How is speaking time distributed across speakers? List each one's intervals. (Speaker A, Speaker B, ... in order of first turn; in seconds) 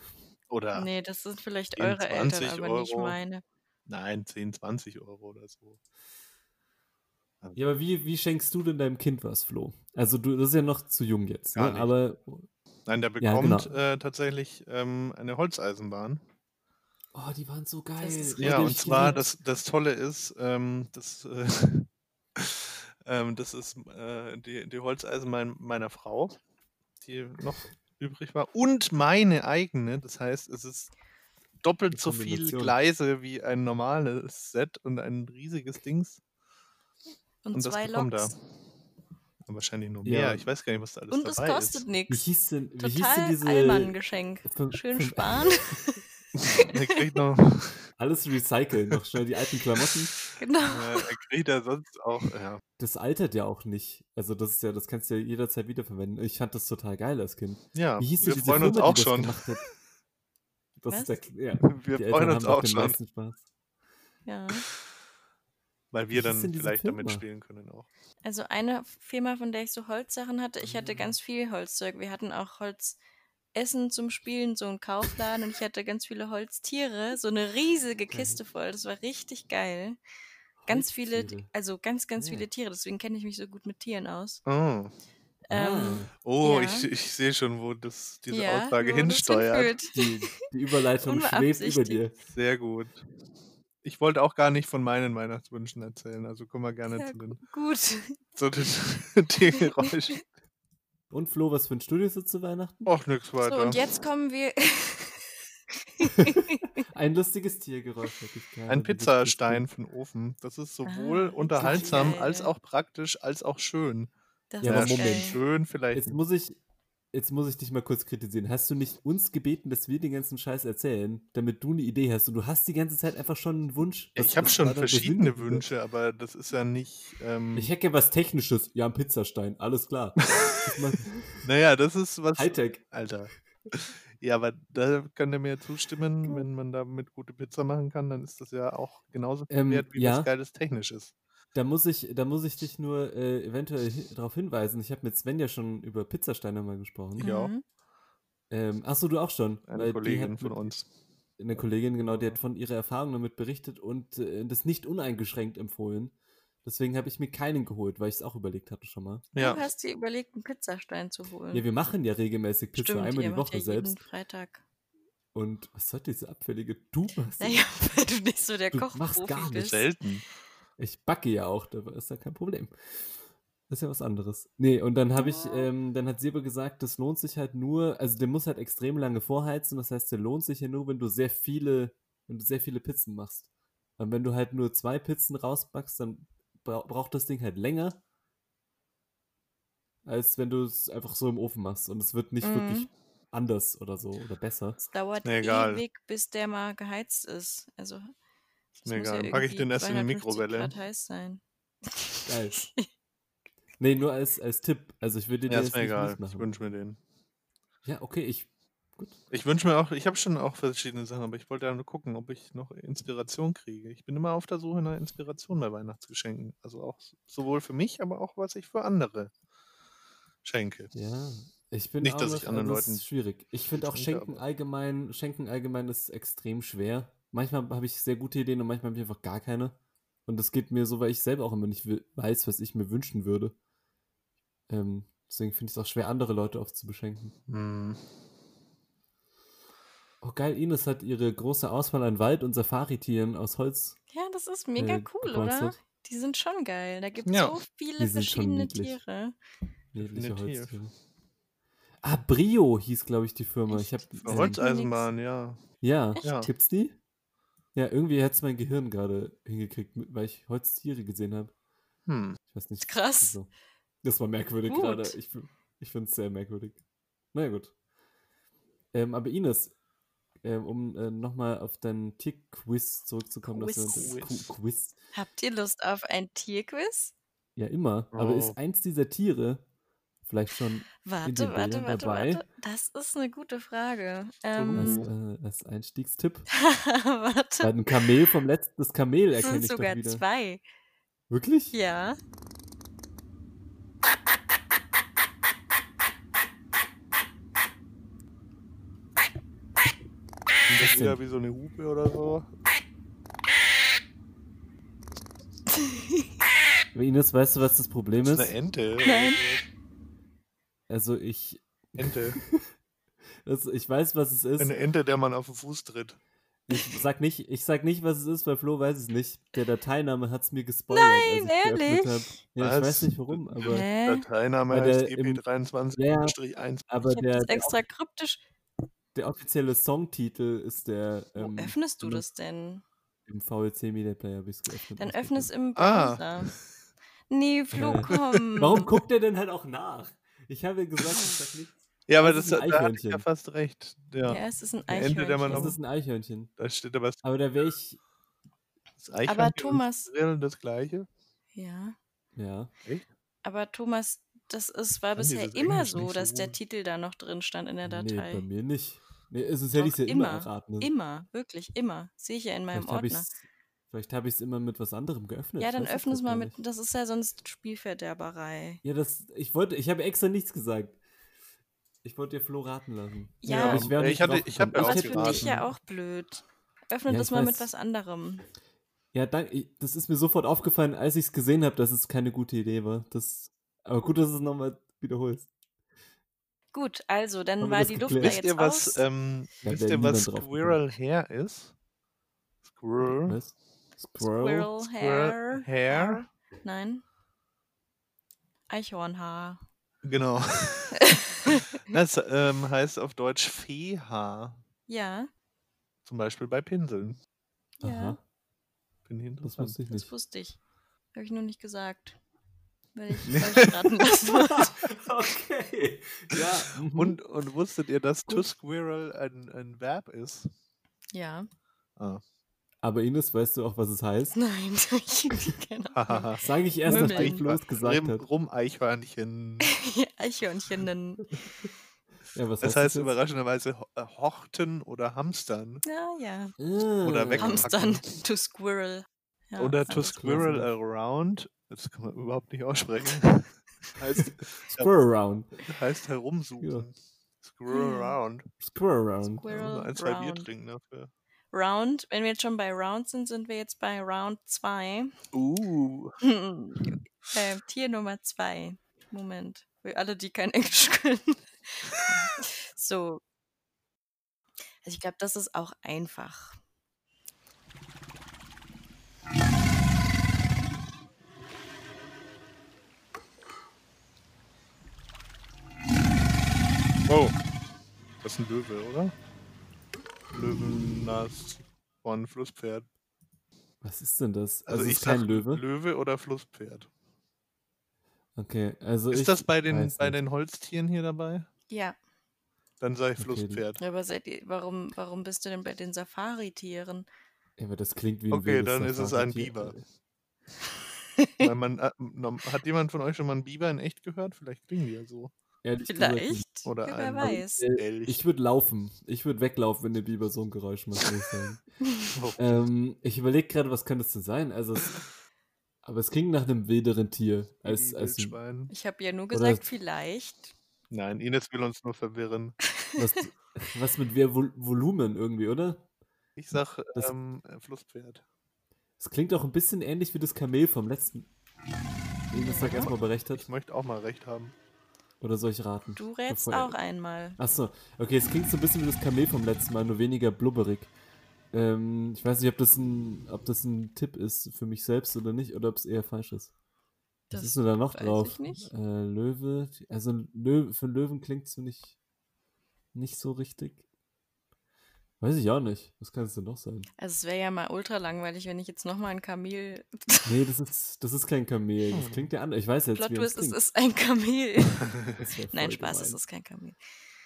Speaker A: 0.5-0.9, 1.8-3.2, 3.9-5.8, 11.5-11.9, 12.9-16.2, 18.4-26.4, 27.0-30.9, 31.6-36.2, 37.5-38.4, 39.5-41.9, 46.4-47.9, 50.6-52.6, 57.7-59.4, 61.6-63.0, 65.9-67.9, 84.5-84.9, 86.2-89.8, 92.3-93.0, 93.8-97.4, 98.3-100.2, 102.9-103.8, 108.7-114.1, 114.6-116.2, 124.2-127.7, 130.2-130.7, 131.4-141.1, 147.2-147.5, 149.7-150.9, 159.3-159.7, 169.5-170.2, 195.2-195.8, 198.9-200.7, 205.5-207.0, 209.3-219.3, 220.4-220.9, 222.0-223.1, 223.8-224.4, 237.5-238.1, 247.3-247.6, 249.9-250.8, 254.3-255.6, 256.2-256.5, 262.1-262.4, 273.9-274.5, 278.1-278.6, 284.6-285.1, 300.8-302.5, 308.2-309.7, 312.0-312.4, 314.6-316.2, 322.6-326.9, 335.8-336.6, 338.1-339.0, 342.1-345.8, 346.6-347.2, 349.0-351.1, 355.2-356.6, 373.5-375.7, 388.2-391.7, 392.7-393.4, 394.9-396.2, 400.0-404.6, 406.1-407.2, 409.1-409.8, 413.3-413.8, 416.4-420.5, 422.0-422.2, 425.9-429.7, 432.6-435.8, 437.0-438.2, 439.6-444.9, 445.7-448.5, 449.5-451.1, 455.3-456.2, 477.1-477.4, 478.2-479.1, 480.3-482.9, 484.7-486.9, 489.1-491.5, 492.8-493.8, 498.3-499.8, 501.4-505.3, 506.6-508.2, 512.1-512.7, 517.6-518.7, 520.9-522.6, 526.4-528.2, 533.3-534.5, 561.9-562.3
Speaker B: 0.8-3.4, 18.0-19.2, 37.5-38.3, 41.1-42.3, 42.8-47.0, 50.4-51.1, 60.9-61.2, 64.3-64.7, 68.2-73.0, 73.5-80.0, 80.7-84.4, 85.5-86.9, 88.3-90.0, 91.0-92.0, 97.0-98.2, 99.8-100.2, 103.4-105.3, 106.0-106.7, 110.8-112.5, 114.5-115.4, 147.2-147.6, 159.4-161.7, 162.8-164.6, 167.4-169.9, 175.2-175.7, 192.4-192.9, 194.8-198.1, 198.8-202.9, 244.1-249.4, 253.7-255.1, 262.8-263.4, 264.7-265.2, 273.5-274.2, 275.1-277.1, 281.0-285.0, 286.6-288.1, 289.4-290.6, 291.7-292.2, 309.0-309.4, 320.9-322.4, 323.6-324.3, 327.1-328.4, 331.4-332.8, 335.0-336.5, 337.3-338.9, 344.2-345.7, 349.3-350.1, 351.6-352.0, 353.4-358.5, 359.8-363.3, 365.6-368.8, 373.4-373.9, 374.8-378.4, 386.7-389.0, 394.2-397.0, 398.7-399.6, 401.0-401.6, 404.9-405.3, 407.8-408.2, 409.9-410.6, 411.1-412.2, 412.9-414.9, 421.1-421.5, 424.4-426.3, 426.9-427.4, 429.6-431.3, 435.9-436.6, 437.4-440.5, 447.7-448.2, 449.3-450.5, 451.5-455.1, 456.2-463.2, 464.8-466.6, 491.7-492.0, 493.8-497.1, 501.2-501.4, 505.9-507.6, 511.8-512.1, 518.7-520.5, 522.8-523.2, 532.3-532.9, 536.0-537.4, 547.3-548.7, 557.0-560.4, 563.0-565.0, 565.5-566.8
Speaker C: 7.5-12.5, 13.2-13.7, 17.1-19.2, 31.9-32.8, 40.0-40.5, 42.1-45.8, 48.0-50.1, 52.8-59.6, 60.8-63.4, 66.1-67.2, 78.1-78.4, 80.6-81.5, 82.2-82.5, 85.5-86.1, 89.9-92.2, 101.1-102.9, 106.0-109.7, 111.6-112.2, 114.6-115.4, 115.9-116.6, 117.1-125.7, 127.5-131.4, 132.3-132.8, 139.5-140.3, 141.5-147.3, 148.5-150.6, 151.4-159.3, 161.5-164.0, 165.3-167.7, 168.7-169.8, 170.8-173.2, 173.7-188.0, 190.1-194.8, 202.3-202.6, 203.8-206.5, 207.8-209.2, 220.9-229.8, 230.3-233.6, 234.7-237.3, 240.2-244.0, 244.8-245.8, 248.0-249.0, 249.9-250.9, 252.0-254.6, 255.8-257.0, 257.8-261.5, 262.5-263.5, 264.0-266.8, 267.3-267.7, 268.9-269.7, 270.4-275.0, 277.6-279.6, 280.2-282.4, 284.8-286.5, 287.6-290.2, 291.3-291.7, 300.7-301.2, 306.9-308.5, 310.9-312.7, 313.4-314.8, 316.7-323.9, 324.7-325.4, 326.0-326.4, 326.9-327.8, 329.1-332.2, 333.3-335.5, 337.7-343.2, 345.5-346.5, 347.2-348.0, 352.4-352.7, 357.8-360.9, 362.7-363.4, 363.9-366.6, 368.8-371.0, 372.0-375.6, 377.1-377.7, 379.1-385.5, 387.6-388.4, 389.6-390.8, 393.0-394.8, 407.8-408.2, 409.4-410.1, 414.3-417.2, 422.8-424.4, 426.4-428.2, 432.3-433.1, 436.6-437.7, 440.1-440.7, 444.1-445.6, 446.6-446.9, 448.6-449.5, 483.8-485.6, 488.4-490.2, 493.2-493.6, 497.6-499.8, 505.6-506.5, 507.2-511.6, 512.4-515.0, 515.8-518.4, 519.3-519.6, 523.0-525.9, 529.0-531.3, 532.3-533.5, 535.2-536.8, 537.4-540.9, 541.5-546.5, 547.3-552.0, 552.9-553.8, 555.2-556.9, 560.2-563.6, 565.2-566.2